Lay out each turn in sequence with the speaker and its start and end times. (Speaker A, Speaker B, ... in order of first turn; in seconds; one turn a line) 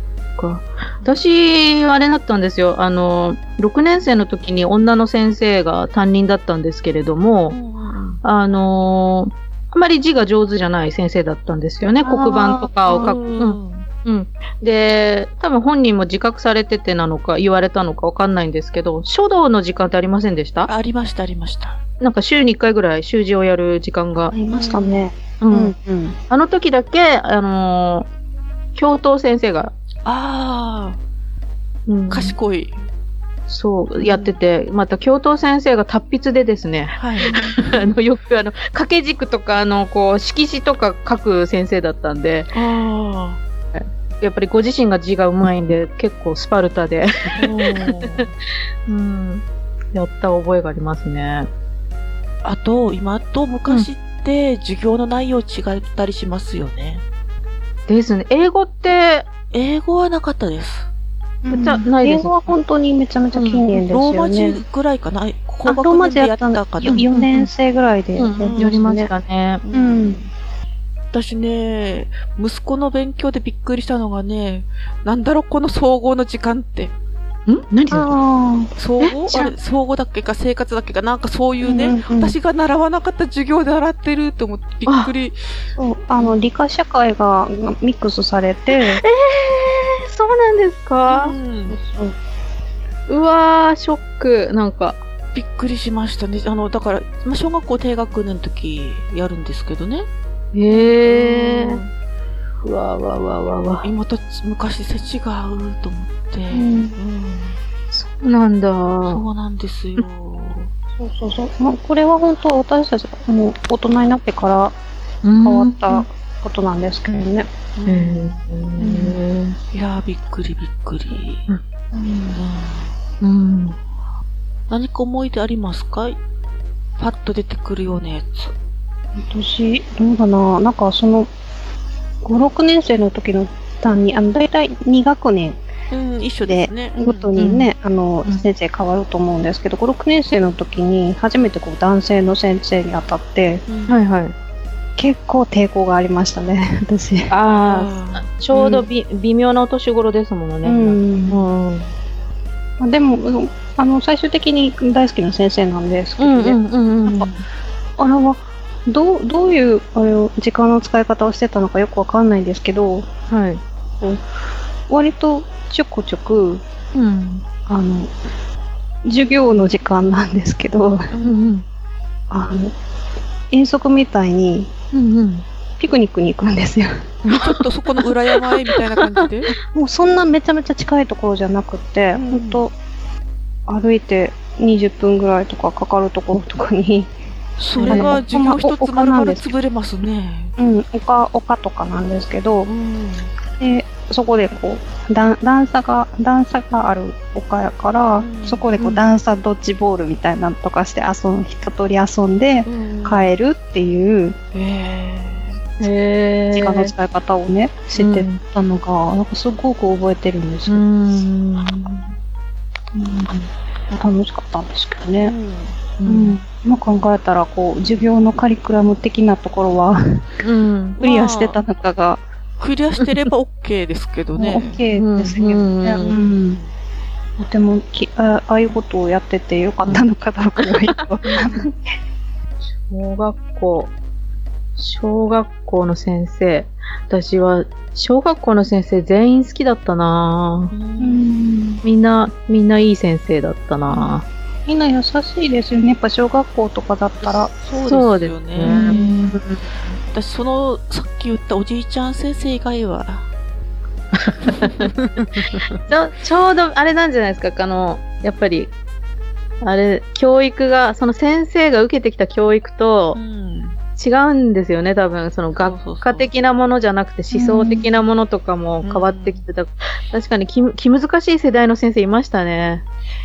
Speaker A: 0.4-7.5
Speaker B: 7.5-8.2
Speaker A: 8.2-20.7
Speaker C: 12.0-13.2
Speaker B: 12.8-13.9
Speaker B: 20.7-21.8
Speaker A: 22.0-24.3
Speaker C: 24.3-26.1
Speaker B: 24.5-25.0
Speaker A: 25.4-25.7
Speaker A: 26.3-28.1
Speaker A: 28.8-29.7
Speaker B: 30.0-31.0
Speaker A: 31.9-32.3
Speaker B: 32.1-32.8
Speaker A: 33.5-42.5
Speaker B: 34.0-34.4
Speaker B: 37.0-37.8
Speaker B: 42.5-43.4
Speaker A: 43.7-48.1
Speaker B: 47.3-48.3
Speaker A: 48.9-51.5
Speaker B: 52.4-57.0
Speaker A: 57.9-59.3
Speaker B: 59.5-60.9
Speaker C: 61.4-64.6
Speaker A: 61.5-62.5
Speaker A: 63.3-63.6
Speaker B: 63.8-67.0
Speaker C: 65.7-69.1
Speaker A: 66.9-67.5
Speaker A: 68.2-69.6
Speaker B: 68.5-68.8
Speaker B: 69.6-70.3
Speaker C: 69.7-70.2
Speaker B: 71.1-76.9
Speaker A: 77.5-78.2
Speaker C: 77.9-78.7
Speaker B: 78.8-85.6
Speaker A: 79.0-79.5
Speaker C: 81.6-82.3
Speaker A: 84.9-85.1
Speaker C: 85.8-89.0
Speaker A: 88.7-91.3
Speaker B: 91.1-91.8
Speaker C: 91.7-92.2
Speaker A: 93.1-95.0
Speaker B: 95.3-100.1
Speaker A: 100.5-101.8
Speaker B: 100.7-101.9
Speaker A: 102.6-103.8
Speaker B: 103.8-107.6
Speaker C: 106.5-107.0
Speaker A: 107.9-109.2
Speaker B: 109.1-110.7
Speaker C: 111.0-114.8
Speaker A: 115.2-116.0
Speaker C: 115.4-117.5
Speaker B: 117.8-118.3
Speaker A: 117.8-119.6
Speaker C: 118.8-119.1
Speaker B: 119.7-121.5
Speaker C: 121.9-122.4
Speaker B: 122.3-122.9
Speaker A: 123.2-123.8
Speaker B: 124.7-126.2
Speaker B: 127.0-128.5
Speaker C: 129.2-131.3
Speaker C: 132.2-135.6
Speaker B: 135.9-137.3
Speaker C: 136.5-143.6
Speaker A: 137.3-137.7
Speaker B: 143.7-143.9
Speaker A: 143.9-144.3
Speaker C: 145.0-147.3
Speaker A: 147.3-151.9
Speaker B: 147.6-148.3
Speaker C: 150.6-151.4
Speaker C: 152.8-157.3
Speaker A: 156.2-157.3
Speaker C: 158.0-163.1
Speaker A: 163.3-163.6
Speaker C: 164.9-166.6
Speaker A: 166.9-167.4
Speaker C: 167.7-168.1
Speaker C: 169.0-171.1
Speaker B: 171.1-171.4
Speaker A: 171.2-171.6
Speaker C: 172.3-172.7
Speaker C: 173.5-174.7
Speaker A: 174.9-175.4
Speaker C: 175.8-176.9
Speaker B: 177.2-179.5
Speaker A: 177.3-177.6
Speaker C: 179.7-182.7
Speaker B: 182.2-182.6
Speaker C: 183.7-187.1
Speaker B: 187.6-190.5
Speaker C: 187.7-189.5
Speaker A: 187.8-188.2
Speaker C: 190.6-192.7
Speaker B: 192.6-193.3
Speaker C: 193.6-204.3
Speaker B: 198.2-199.0
Speaker B: 202.6-203.3
Speaker B: 204.5-205.6
Speaker A: 205.8-206.9
Speaker C: 206.5-210.8
Speaker A: 207.9-208.4
Speaker A: 210.7-212.1
Speaker C: 212.9-215.3
Speaker B: 215.2-215.8
Speaker A: 216.0-216.4
Speaker C: 216.1-220.2
Speaker A: 220.4-221.0
Speaker C: 221.0-222.2
Speaker B: 221.0-221.6
Speaker B: 222.6-224.8
Speaker C: 224.4-226.6
Speaker A: 224.9-226.2
Speaker B: 226.1-226.7
Speaker C: 227.4-231.8
Speaker A: 230.6-231.5
Speaker A: 232.9-233.9
Speaker A: 234.8-240.7
Speaker B: 240.7-241.2
Speaker C: 241.0-241.8
Speaker A: 241.8-244.2
Speaker C: 244.7-247.5
Speaker B: 247.2-249.4
Speaker A: 247.8-249.6
Speaker C: 248.6-249.1
Speaker B: 250.1-253.2
Speaker A: 254.1-254.9
Speaker B: 254.4-255.7
Speaker A: 255.9-258.7
Speaker A: 259.6-263.2
Speaker B: 263.1-263.8
Speaker A: 264.0-272.8
Speaker B: 265.6-266.3
Speaker C: 267.3-267.9
Speaker B: 268.8-269.4